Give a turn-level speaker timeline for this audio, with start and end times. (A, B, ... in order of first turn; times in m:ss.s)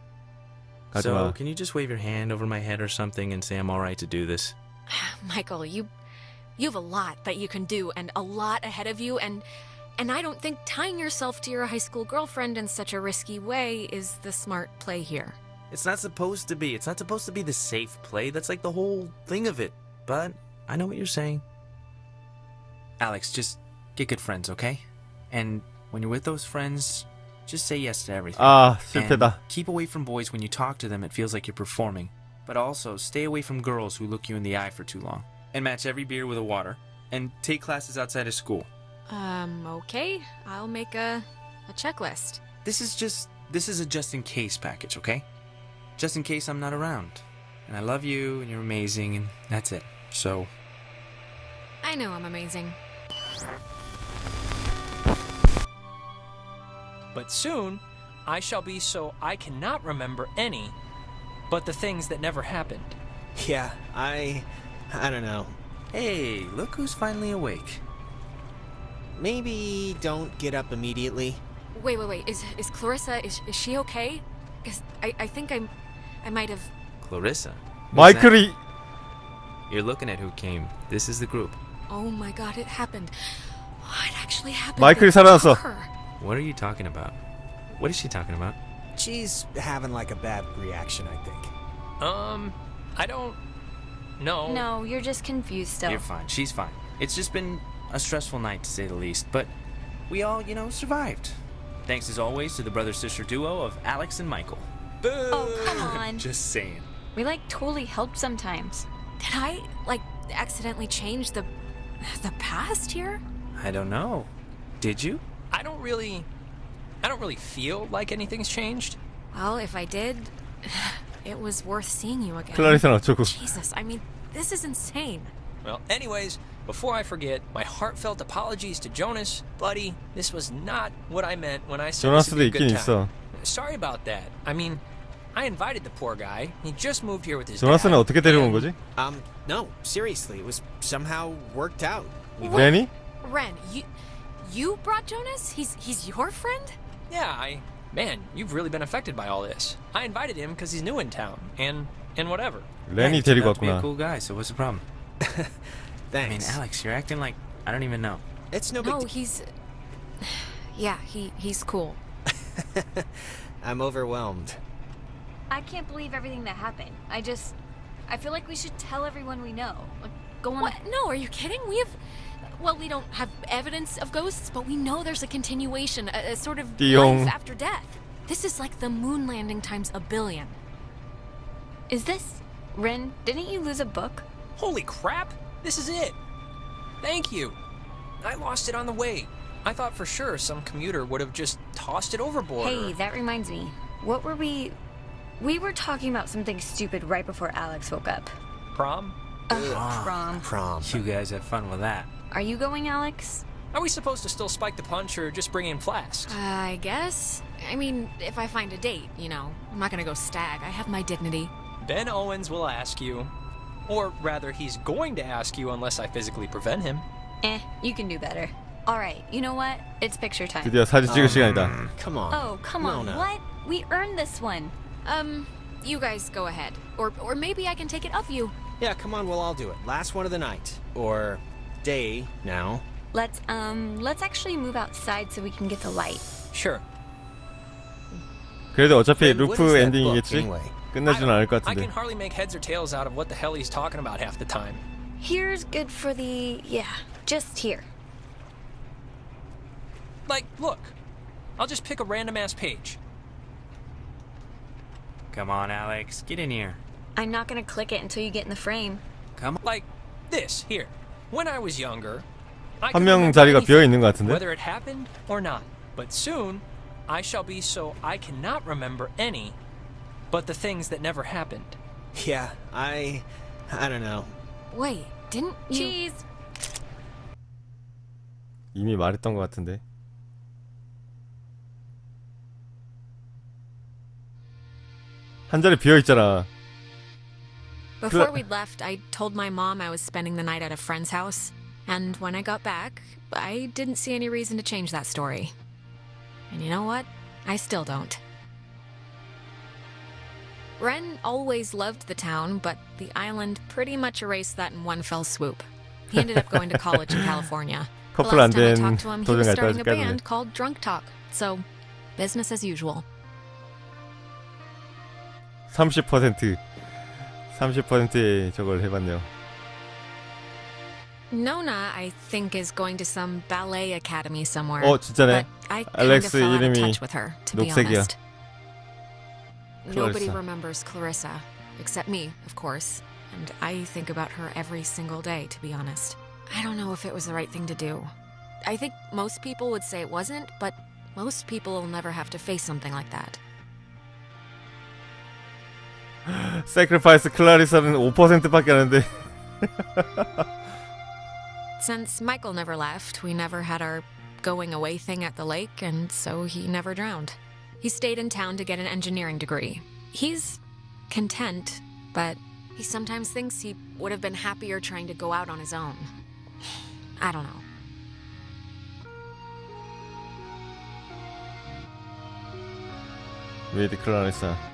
0:00.9-0:04.6 A
0:00.9-0:01.4 B
0:04.9-0:05.9 C
0:06.6-0:09.5 C
0:10.0-0:15.4 C
0:15.7-0:21.4 A
0:23.0-0:38.7 A
0:28.4-0:29.4 B
0:39.1-0:42.4 C
0:42.6-0:45.3 A
0:46.0-0:50.5 A
0:51.8-0:52.8 C
0:57.1-1:00.8 D
1:01.5-1:03.0 D
1:03.4-1:05.6 E
1:05.9-1:07.8 A
1:09.2-1:11.4 E
1:11.7-1:15.7 C
1:16.2-1:16.7 C
1:17.0-1:18.4 A
1:17.9-1:18.6 B
1:19.7-1:21.6 A
1:21.9-1:25.9 C
1:24.8-1:25.6 B
1:26.2-1:27.2 A
1:27.8-1:28.6 A
1:29.0-1:31.5 E
1:32.0-1:33.4 D
1:34.2-1:34.7 D
1:34.4-1:36.0 F
1:35.8-1:39.5 A
1:40.1-1:46.9 A
1:45.3-1:46.0 D
1:45.3-1:46.3 F
1:47.2-1:48.9 F
1:49.2-1:53.2 C
1:53.6-1:55.2 A
1:55.5-1:56.3 D
1:57.0-1:59.0 D
1:59.3-2:05.3 C
2:02.5-2:03.5 B
2:05.6-2:14.8 D
2:12.0-2:13.1 B
2:15.3-2:18.7 D
2:17.6-2:18.8 B
2:19.0-2:22.7 E
2:22.4-2:23.9 C
2:22.4-2:22.9 B
2:24.4-2:26.8 C
2:27.1-2:32.7 D
2:32.9-2:33.9 B
2:33.0-2:34.8 A
2:35.2-2:36.6 E
2:36.2-2:38.2 A
2:38.5-2:39.1 E
2:38.8-2:39.5 C
2:40.2-2:42.0 C
2:42.3-2:44.6 E
2:45.5-2:47.6 F
2:48.1-2:50.8 F
2:50.6-3:00.6 C
2:56.8-2:57.3 B
3:01.9-3:04.3 F
3:04.6-3:06.2 D
3:07.0-3:07.6 D
3:08.2-3:13.0 D
3:12.6-3:14.8 F
3:15.4-3:18.3 F
3:18.7-3:19.2 D
3:19.5-3:20.5 F
3:19.5-3:21.1 E
3:19.6-3:20.2 A
3:20.8-3:22.1 A
3:22.3-3:23.4 F
3:23.7-3:26.4 D
3:26.3-3:31.5 C
3:31.8-3:33.3 D
3:33.9-3:37.0 D
3:37.4-3:40.8 F
3:40.6-3:41.7 B
3:41.1-3:43.3 E
3:41.2-3:41.9 A
3:42.3-3:44.7 F
3:45.0-3:48.6 C
3:48.8-3:52.8 E
3:53.1-3:56.3 F
3:56.5-3:56.8 D
3:58.7-4:01.9 B
3:59.2-4:00.8 E
4:01.1-4:04.8 D
4:05.2-4:07.9 F
4:10.3-4:10.9 D
4:11.6-4:13.0 D
4:15.3-4:16.8 A
4:17.2-4:19.0 F
4:19.4-4:19.6 A
4:19.6-4:22.3 D
4:22.8-4:29.6 D
4:22.9-4:24.4 B
4:30.3-4:31.8 D
4:32.1-4:34.3 E
4:34.7-4:36.2 C
4:35.7-4:36.0 F
4:38.7-4:39.8 B
4:45.5-4:46.5 B
4:48.0-4:55.5 C
4:48.1-4:48.4 B
4:56.5-4:58.2 C
5:00.8-5:11.6 C
5:06.2-5:07.2 B
5:08.1-5:10.2 B
5:12.2-5:13.1 C
5:15.7-5:16.6 B
5:17.5-5:19.3 B
5:21.3-5:28.2 C
5:24.8-5:27.0 B
5:27.5-5:28.1 B
5:29.8-5:38.1 C
5:29.9-5:30.4 B
5:38.6-5:43.4 C
5:46.3-5:50.4 B
5:51.8-6:06.1 C
6:07.2-6:07.6 C
6:13.7-6:14.6 B